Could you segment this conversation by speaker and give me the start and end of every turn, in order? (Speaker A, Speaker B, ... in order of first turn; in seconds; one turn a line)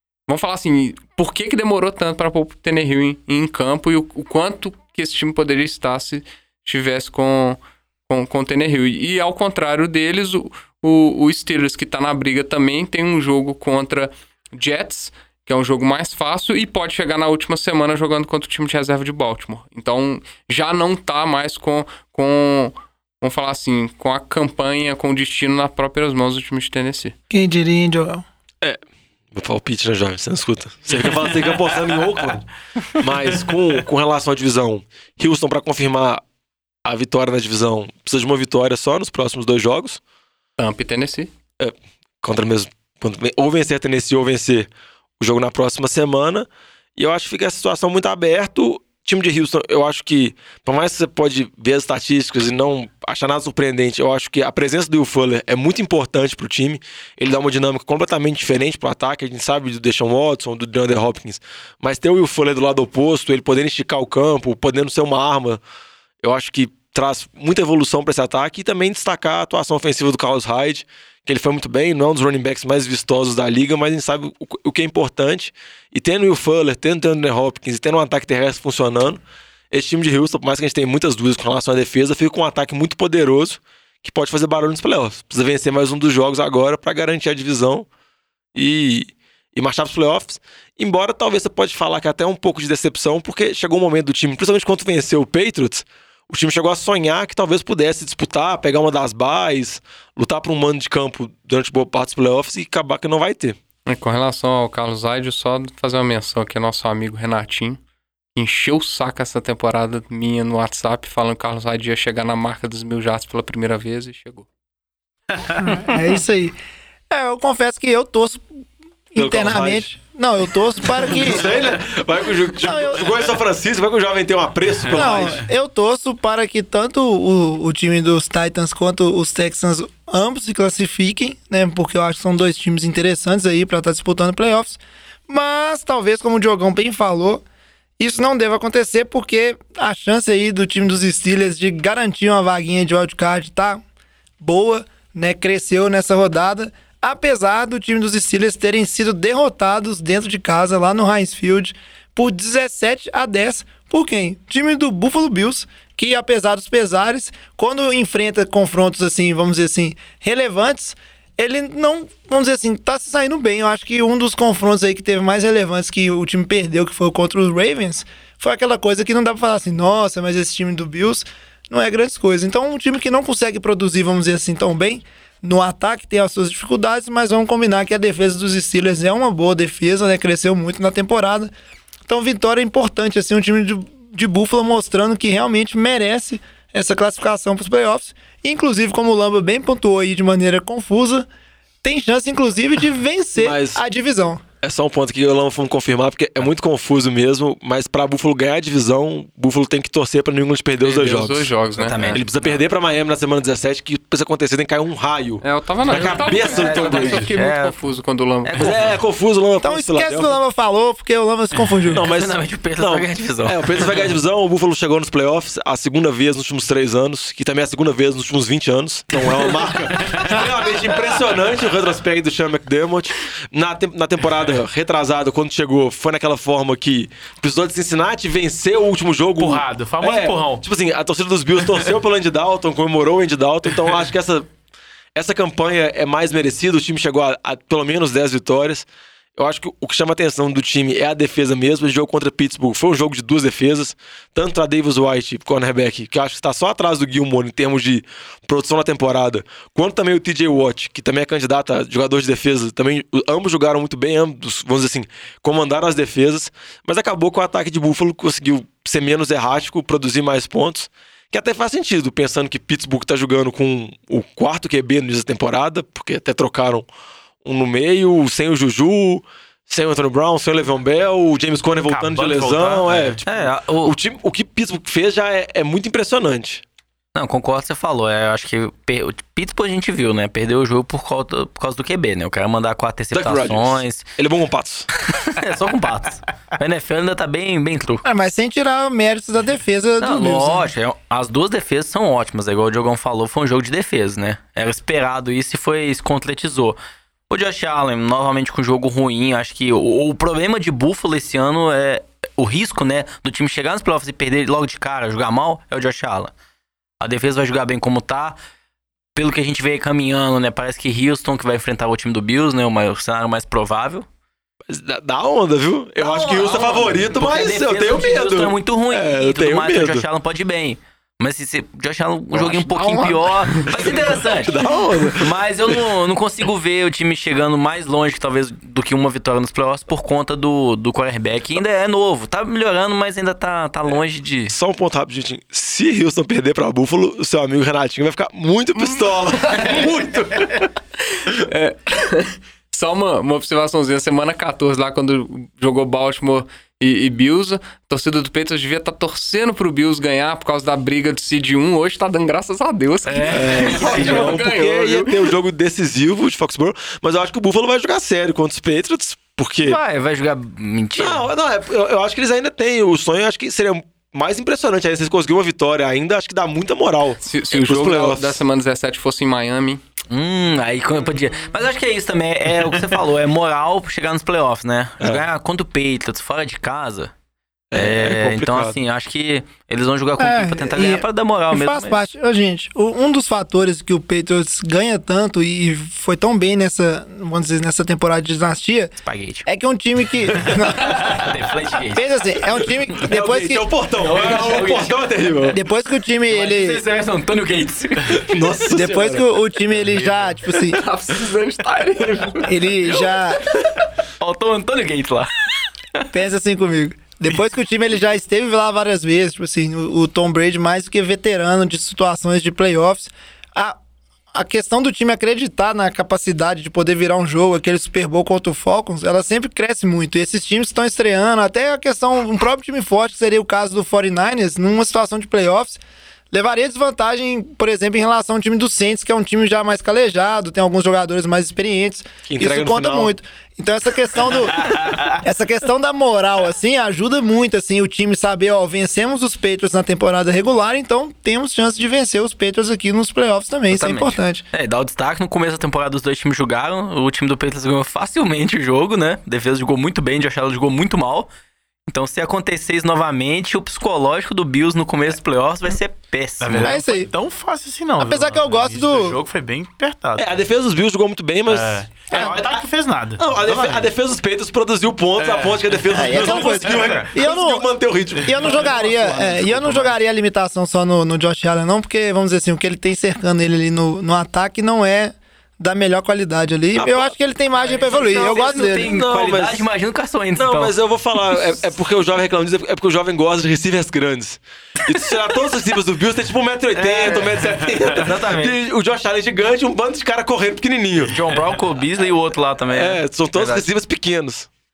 Speaker A: 0.3-27.1
Speaker B: 27.3-28.2
Speaker C: 29.3-32.4
Speaker C: 33.0-36.2
Speaker C: 36.9-40.0
Speaker A: 40.6-41.3
Speaker C: 41.6-44.7
Speaker C: 45.2-65.6
Speaker C: 66.2-87.9
Speaker C: 88.5-103.6
Speaker A: 103.9-107.8
Speaker A: 108.3-114.5
Speaker B: 115.6-116.5
Speaker B: 117.1-118.5
Speaker B: 119.1-121.5
Speaker C: 119.2-119.9
Speaker C: 120.9-125.4
Speaker B: 122.6-123.1
Speaker B: 124.9-137.4
Speaker B: 138.0-143.8
Speaker B: 144.4-181.5
Speaker B: 182.1-191.3
Speaker B: 191.8-194.4
Speaker C: 193.4-193.8
Speaker C: 194.6-201.5
Speaker A: 200.8-202.2
Speaker D: 201.8-202.5
Speaker C: 202.1-207.3
Speaker A: 205.4-208.8
Speaker D: 205.9-207.8
Speaker D: 208.4-208.9
Speaker C: 208.6-210.4
Speaker B: 209.6-212.0
Speaker D: 211.9-213.6
Speaker C: 211.9-234.5
Speaker E: 229.4-230.6
Speaker C: 235.2-238.9
Speaker C: 239.4-266.9
Speaker C: 267.4-276.6
Speaker E: 271.8-273.2
Speaker D: 273.2-273.9
Speaker D: 277.1-284.1
Speaker C: 283.1-284.9
Speaker D: 285.2-288.0
Speaker B: 288.0-290.7
Speaker D: 290.0-296.8
Speaker D: 297.3-306.3
Speaker D: 307.0-308.4
Speaker D: 309.1-314.1
Speaker C: 314.7-320.1
Speaker D: 316.0-324.5
Speaker A: 322.8-323.9
Speaker C: 323.8-325.4
Speaker D: 325.2-334.5
Speaker C: 334.5-340.4
Speaker A: 338.8-339.9
Speaker A: 341.3-355.3
Speaker D: 353.1-354.4
Speaker C: 353.3-359.8
Speaker D: 359.6-361.2
Speaker C: 361.0-368.4
Speaker A: 367.2-369.8
Speaker D: 370.1-377.1
Speaker C: 377.7-378.8
Speaker D: 377.8-382.0
Speaker B: 380.2-391.2
Speaker D: 389.0-389.5
Speaker D: 390.5-392.1
Speaker B: 391.9-393.7
Speaker C: 393.1-395.6
Speaker D: 394.0-395.0
Speaker B: 395.5-396.8
Speaker D: 396.3-398.3
Speaker C: 398.2-399.2
Speaker B: 398.7-400.8
Speaker A: 400.6-402.5
Speaker B: 402.4-403.4
Speaker D: 404.2-405.3
Speaker B: 406.1-413.8
Speaker B: 414.3-425.8
Speaker B: 426.3-444.4
Speaker C: 432.3-433.1
Speaker D: 434.6-435.0
Speaker D: 443.7-451.3
Speaker D: 451.9-456.8
Speaker E: 456.4-460.4
Speaker B: 456.6-457.1
Speaker B: 458.0-459.2
Speaker C: 460.2-462.6
Speaker E: 461.5-463.9
Speaker B: 462.1-462.4
Speaker C: 463.2-468.9
Speaker E: 465.2-467.1
Speaker B: 465.9-467.7
Speaker B: 468.2-478.9
Speaker E: 468.3-469.9
Speaker C: 476.8-477.1
Speaker D: 477.8-480.7
Speaker C: 478.3-479.7
Speaker C: 480.4-491.1
Speaker D: 486.8-488.6
Speaker D: 491.1-493.7
Speaker C: 492.7-494.5